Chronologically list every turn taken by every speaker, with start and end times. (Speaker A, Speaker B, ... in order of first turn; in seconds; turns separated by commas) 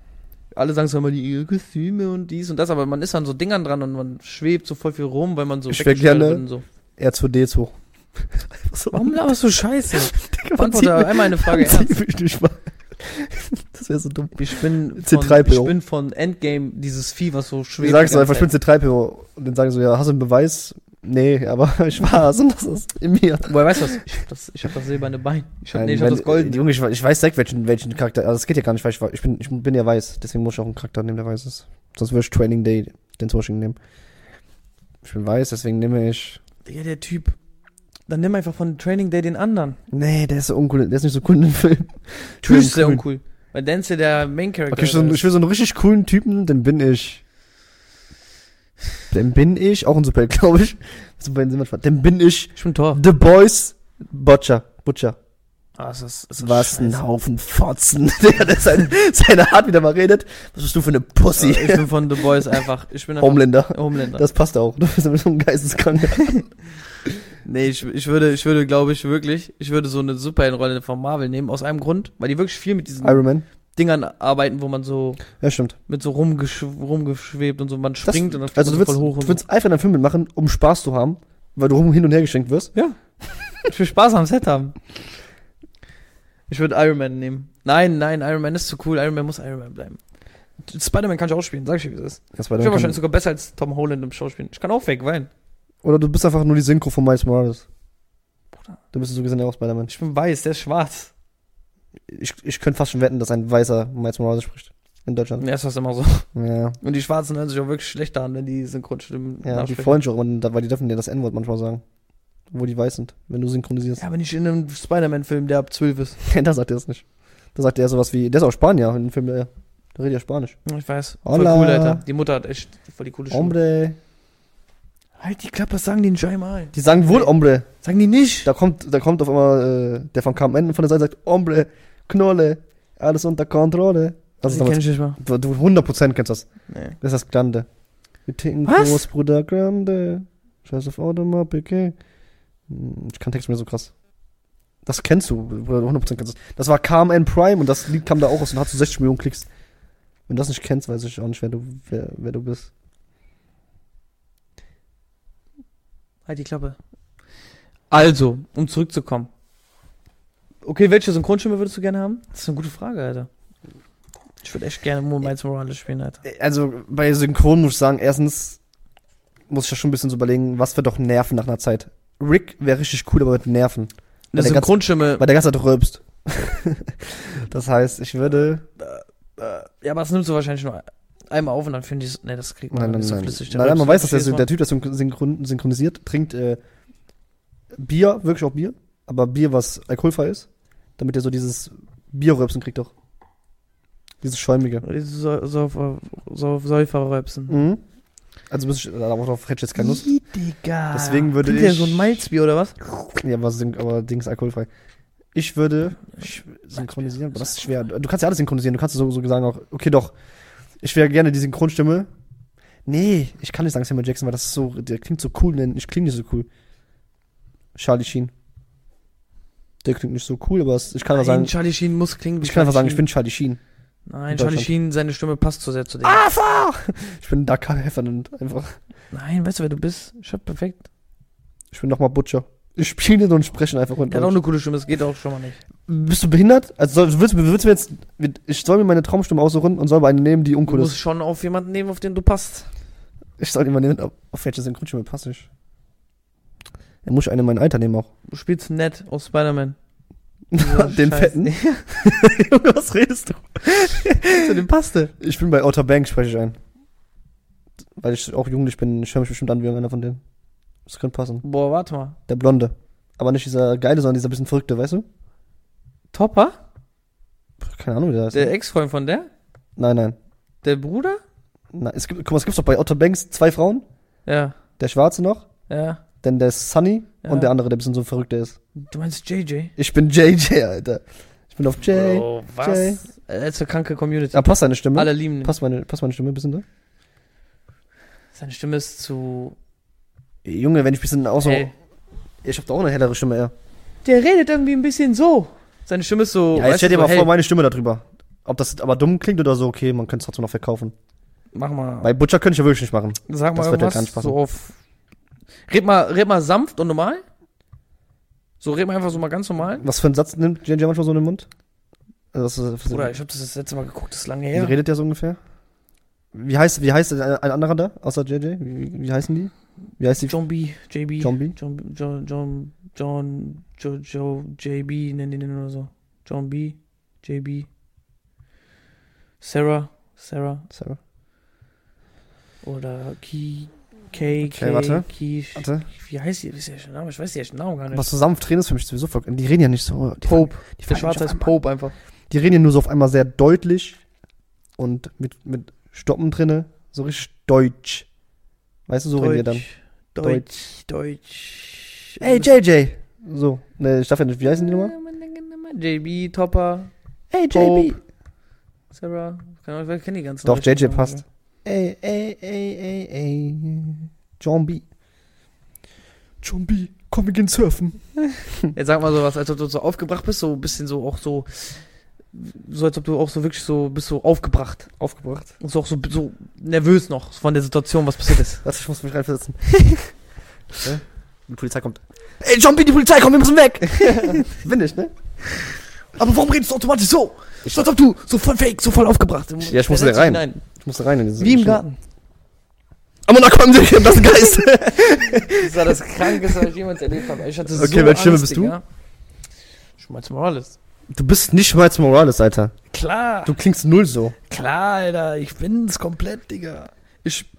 Speaker A: 0.5-6.7, Speaker B: 5.7-6.4, Speaker B: 7.0-9.2, Speaker A: 8.9-12.0, Speaker B: 9.9-15.7, Speaker A: 14.4-18.5, Speaker B: 17.8-23.9, Speaker A: 23.5-26.6, Speaker B: 25.7-33.8, Speaker B: 35.0-36.4, Speaker A: 36.7-37.4, Speaker A: 38.1-39.8, Speaker B: 39.9-43.0, Speaker A: 42.4-45.3, Speaker B: 44.7-47.2, Speaker B: 49.1-55.2, Speaker A: 52.6-53.0, Speaker A: 55.8-57.0, Speaker B: 56.4-62.6, Speaker A: 61.4-64.2, Speaker B: 63.2-66.5, Speaker A: 67.4-75.2, Speaker B: 73.0-73.5, Speaker B: 75.4-75.8, Speaker A: 75.9-79.4, Speaker B: 78.0-82.7, Speaker A: 83.6-84.8, Speaker A: 86.5-90.0, Speaker A: 90.6-95.3, Speaker B: 92.3-93.0, Speaker B: 95.8-97.7, Speaker B: 98.9-99.9, Speaker A: 99.9-101.1, Speaker B: 102.1-105.4, Speaker A: 105.4-106.3, Speaker B: 106.3-106.8, Speaker A: 106.8-110.0, Speaker B: 109.4-111.8, Speaker B: 112.5-114.0, Speaker A: 114.0-116.2, Speaker B: 116.2-120.6, Speaker A: 120.7-123.5, Speaker B: 121.2-122.0, Speaker B: 123.3-124.0, Speaker A: 125.2-128.5, Speaker B: 126.7-127.7, Speaker B: 128.4-136.5, Speaker A: 134.5-135.2, Speaker A: 136.7-137.0, Speaker B: 137.0-137.7, Speaker B: 138.3-141.9, Speaker A: 138.7-139.0, Speaker B: 142.7-143.9, Speaker B: 144.9-149.5, Speaker B: 150.3-152.7, Speaker A: 156.3-156.8, Speaker A: 157.9-159.3, Speaker A: 160.6-163.3, Speaker A: 164.4-166.2, Speaker B: 166.2-168.6, Speaker B: 169.5-178.7, Speaker A: 174.3-175.3, Speaker A: 178.8-184.4, Speaker B: 182.7-186.6, Speaker B: 187.8-192.9, Speaker B: 194.2-194.8, Speaker A: 194.8-197.6, Speaker B: 197.5-197.8, Speaker B: 198.5-200.1, Speaker A: 199.8-203.1, Speaker B: 200.9-202.3, Speaker B: 203.2-204.7, Speaker B: 205.3-210.1, Speaker B: 210.8-212.1, Speaker B: 212.9-216.5, Speaker B: 217.8-218.3, Speaker B: 219.8-221.5, Speaker A: 221.1-223.1, Speaker B: 222.4-223.6, Speaker A: 224.1-226.2, Speaker B: 224.3-224.7, Speaker B: 226.0-228.8, Speaker A: 229.1-230.8, Speaker B: 231.7-234.4, Speaker A: 234.1-235.6, Speaker B: 235.9-240.9, Speaker A: 240.7-242.7, Speaker B: 243.4-245.5, Speaker B: 247.1-248.1, Speaker A: 248.3-249.8, Speaker B: 250.5-254.6, Speaker A: 250.6-251.9, Speaker A: 254.2-255.1, Speaker B: 255.2-256.6, Speaker B: 258.0-260.2, Speaker B: 260.9-261.4, Speaker A: 261.4-262.2, Speaker B: 262.3-265.1, Speaker A: 266.1-266.6, Speaker B: 267.6-268.5, Speaker A: 268.3-269.3, Speaker B: 269.8-270.2, Speaker A: 270.6-271.2, Speaker B: 271.7-273.9, Speaker A: 274.3-274.6, Speaker B: 274.8-275.4, Speaker A: 275.7-276.0, Speaker B: 276.2-278.6, Speaker A: 277.2-277.5, Speaker A: 278.8-279.7, Speaker B: 279.8-283.0, Speaker A: 281.9-285.6, Speaker B: 284.3-286.6, Speaker A: 288.3-289.6, Speaker B: 290.4-291.7, Speaker A: 291.4-291.7, Speaker B: 292.4-293.5, Speaker A: 294.0-297.3, Speaker B: 296.5-300.9, Speaker A: 301.6-302.1, Speaker B: 302.0-304.4, Speaker A: 303.3-304.8, Speaker A: 305.7-307.2, Speaker A: 308.6-309.9, Speaker B: 309.8-311.5, Speaker B: 312.3-313.1, Speaker A: 312.9-314.8, Speaker B: 314.5-315.4, Speaker B: 316.3-320.4, Speaker A: 320.2-327.7, Speaker B: 321.2-321.6, Speaker A: 329.4-330.7, Speaker B: 330.7-331.0, Speaker A: 332.6-338.1, Speaker B: 334.5-335.9, Speaker B: 337.9-341.5, Speaker A: 340.2-341.9, Speaker B: 342.3-344.0, Speaker B: 344.8-348.1, Speaker B: 348.9-349.6, Speaker A: 349.2-352.5, Speaker B: 352.2-354.9, Speaker A: 354.4-356.9, Speaker B: 357.3-358.0, Speaker A: 357.5-358.0, Speaker A: 358.9-361.2, Speaker B: 360.4-364.8, Speaker B: 366.4-368.0, Speaker A: 368.7-374.9, Speaker B: 375.0-375.5, Speaker A: 375.6-378.6, Speaker B: 378.6-379.7, Speaker B: 380.8-385.1, Speaker A: 384.0-384.4, Speaker A: 386.2-390.6, Speaker B: 387.6-387.9, Speaker B: 389.6-391.8, Speaker A: 391.4-392.0, Speaker B: 393.3-396.7, Speaker A: 395.4-398.8, Speaker B: 397.7-398.8, Speaker A: 400.0-400.8, Speaker B: 401.1-402.7, Speaker A: 402.9-403.6, Speaker B: 403.4-404.4, Speaker A: 404.5-407.5